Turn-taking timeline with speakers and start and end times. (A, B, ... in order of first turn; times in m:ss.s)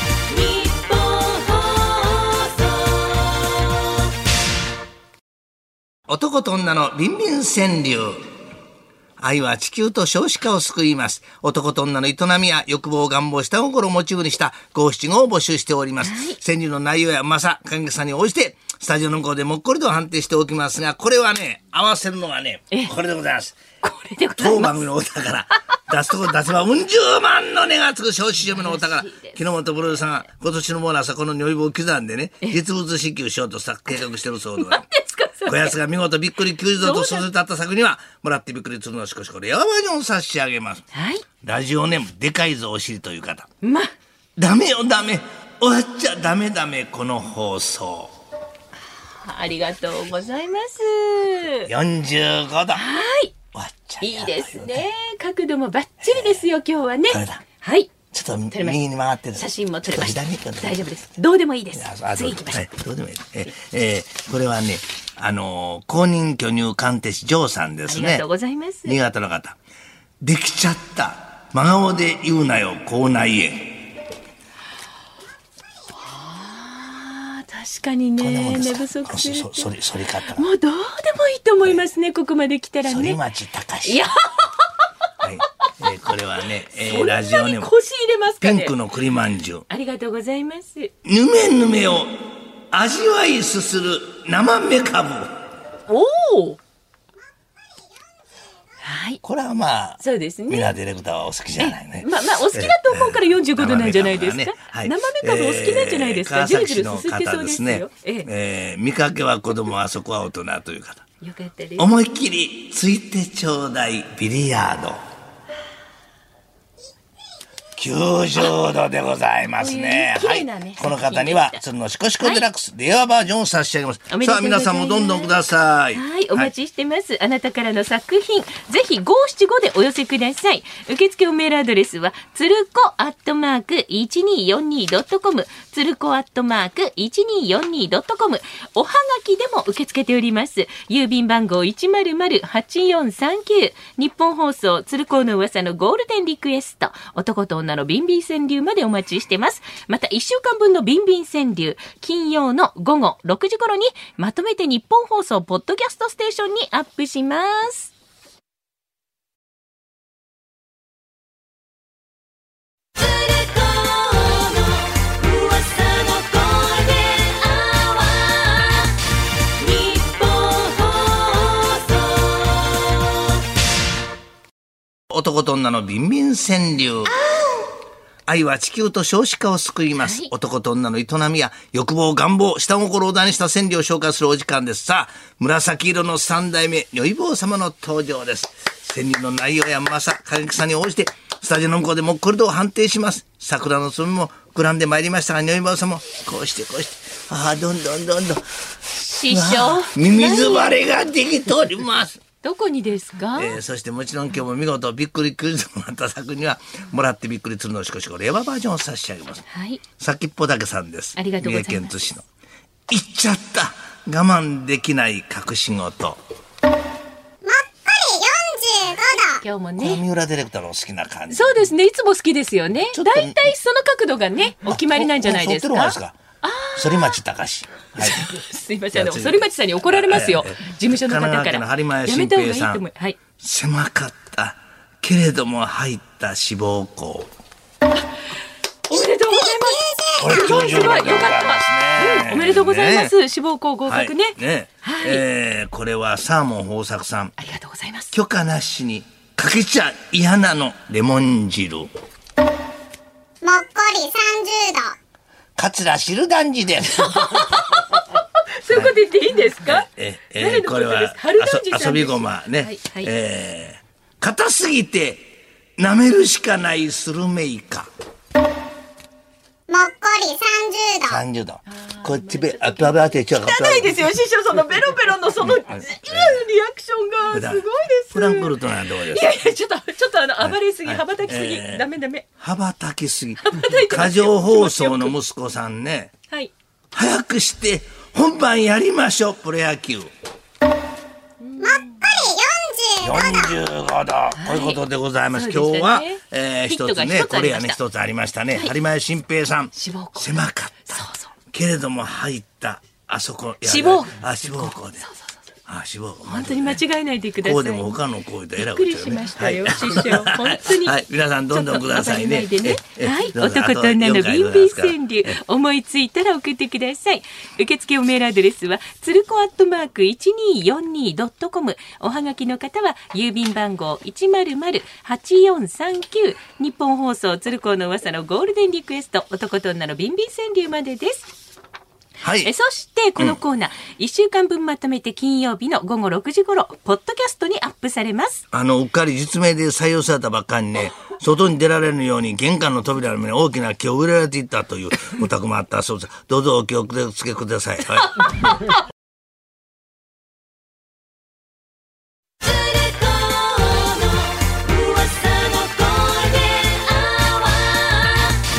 0:00.2-0:03.5 A
0:06.1-0:08.3 B
0:09.2-0:23.6 B
0:16.0-0:16.4 A
0:23.8-0:24.8 A
0:24.4-0:34.8 B
0:28.5-0:29.5 A
0:34.6-0:35.7 A
0:35.4-0:40.8 B
0:36.8-0:37.2 A
0:40.9-0:41.2 A
0:41.4-0:43.5 B
0:43.6-0:43.9 A
0:44.4-0:48.1 B
0:49.2-0:51.7 A
0:51.6-0:52.9 B
0:52.7-0:53.3 A
0:53.5-0:54.9 B
0:54.0-0:57.9 A
0:56.0-0:56.4 B
0:57.1-0:57.4 B
0:58.1-1:00.8 B
0:58.5-0:58.8 A
0:59.3-1:02.6 A
1:01.7-1:08.2 B
1:07.8-1:09.0 A
1:08.8-1:09.6 B
1:10.2-1:13.8 B
1:16.0-1:19.7 A
1:18.2-1:20.4 B
1:20.2-1:23.2 A
1:22.8-1:24.1 B
1:23.8-1:24.8 A
1:25.2-1:27.7 B
1:26.7-1:28.7 A
1:28.4-1:29.6 B
1:29.7-1:30.9 A
1:31.0-1:35.3 B
1:35.9-1:36.6 A
1:38.8-1:39.2 A
1:39.2-1:51.0 B
1:40.0-1:40.7 A
1:41.6-1:48.3 A
1:51.2-1:51.9 A
1:51.8-1:55.0 B
1:57.8-2:06.5 B
1:59.6-2:01.6 A
2:02.2-2:02.4 A
2:04.1-2:05.4 A
2:05.9-2:37.9 A
2:43.0-2:49.0 A
2:49.5-2:52.8 A
2:55.1-2:57.2 B
2:57.1-2:57.7 A
2:58.2-3:18.4 B
3:00.0-3:00.3 A
3:18.9-3:20.8 A
3:19.3-3:22.2 B
3:22.4-3:23.6 A
3:23.3-3:29.4 B
3:29.5-3:29.8 A
3:30.0-3:32.2 B
3:31.2-3:32.1 A
3:32.9-3:36.2 B
3:37.4-3:39.4 C
3:39.1-3:40.0 A
3:39.8-3:41.7 B
3:41.3-3:47.2 A
3:42.9-3:43.5 B
3:44.6-3:46.2 B
3:46.7-3:48.3 B
3:48.0-3:53.2 A
3:48.9-3:52.8 B
3:53.4-3:57.3 B
3:57.9-3:58.2 A
3:58.9-4:05.2 A
3:59.4-4:00.3 C
4:00.2-4:03.1 B
4:03.9-4:07.4 B
4:07.4-4:08.1 A
4:08.1-4:11.9 B
4:13.4-4:14.9 C
4:15.6-4:17.6 B
4:17.0-4:23.1 A
4:18.7-4:19.0 B
4:19.6-4:27.9 B
4:29.7-4:31.2 C
4:31.0-4:34.0 B
4:31.7-4:42.2 A
4:35.4-4:36.4 B
4:37.3-4:39.4 B
4:40.4-4:41.9 B
4:42.4-4:46.1 B
4:43.4-4:45.1 A
4:46.9-4:50.1 B
4:51.4-4:52.0 A
4:51.6-4:53.6 C
4:53.0-5:05.1 B
4:54.3-4:54.8 A
4:55.3-4:57.8 A
4:59.7-5:01.3 A
5:03.6-5:05.4 A
5:05.7-5:06.8 B
5:06.3-5:07.8 A
5:07.4-5:15.4 B
5:08.6-5:31.3 A
5:32.2-5:32.5 B
5:32.4-5:38.4 A
5:38.5-5:48.3 B
5:48.2-5:48.4 A
5:52.4-5:58.4 A